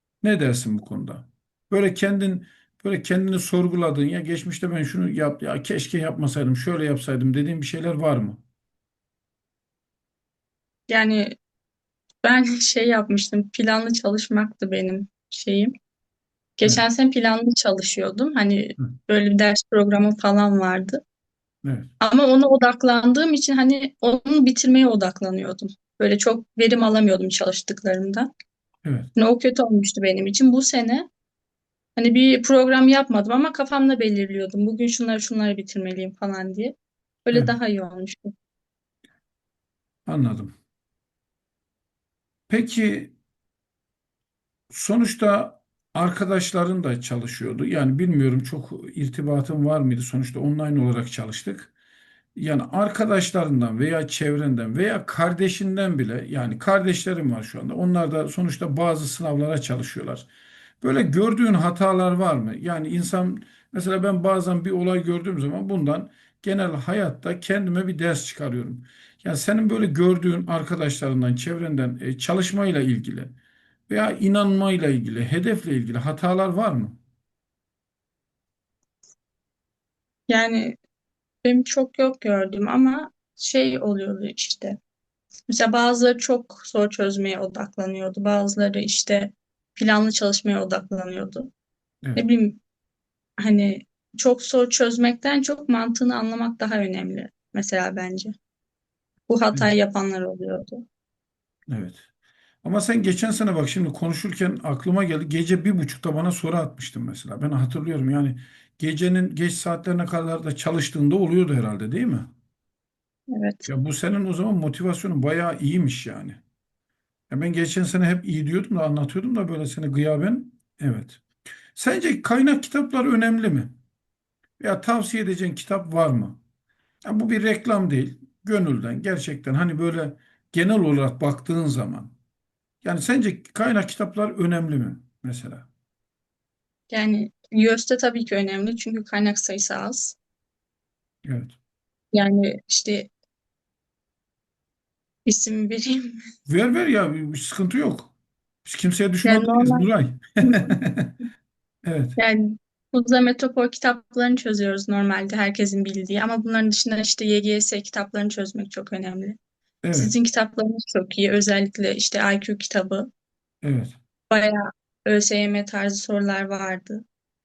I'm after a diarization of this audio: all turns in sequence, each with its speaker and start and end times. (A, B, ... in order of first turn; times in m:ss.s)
0:00.2-0:08.4 A
0:10.9-0:11.4 B
0:12.2-0:15.7 B
0:16.6-0:21.0 B
0:21.6-0:21.9 A
0:22.0-0:28.3 B
0:29.2-0:31.1 B
0:32.0-0:38.3 B
0:40.0-0:40.5 A
0:42.5-0:43.1 A
0:44.7-0:51.7 A
0:52.3-1:00.3 A
1:00.8-1:13.3 A
1:13.9-1:17.0 A
1:20.3-1:20.8 B
1:21.4-1:24.8 B
1:25.5-1:31.5 B
1:32.2-1:32.6 B
1:33.4-1:38.3 B
1:39.3-1:40.8 B
1:41.7-1:42.0 A
1:42.6-1:52.3 A
1:53.3-1:53.7 B
1:53.6-1:56.4 A
1:57.3-2:01.2 A
2:01.7-2:03.7 A
2:04.6-2:06.4 A
2:07.0-2:12.1 A
2:12.8-2:15.7 A
2:16.9-2:20.2 B
2:21.2-2:21.5 A
2:22.1-2:23.1 B
2:25.2-2:26.2 B
2:26.5-2:28.1 A
2:28.6-2:31.2 A
2:29.2-2:29.9 B
2:30.4-2:30.7 B
2:31.8-2:32.2 A
2:32.2-2:39.4 B
2:39.8-2:40.1 A
2:39.9-2:43.1 B
2:43.6-2:43.9 A
2:44.3-2:47.0 B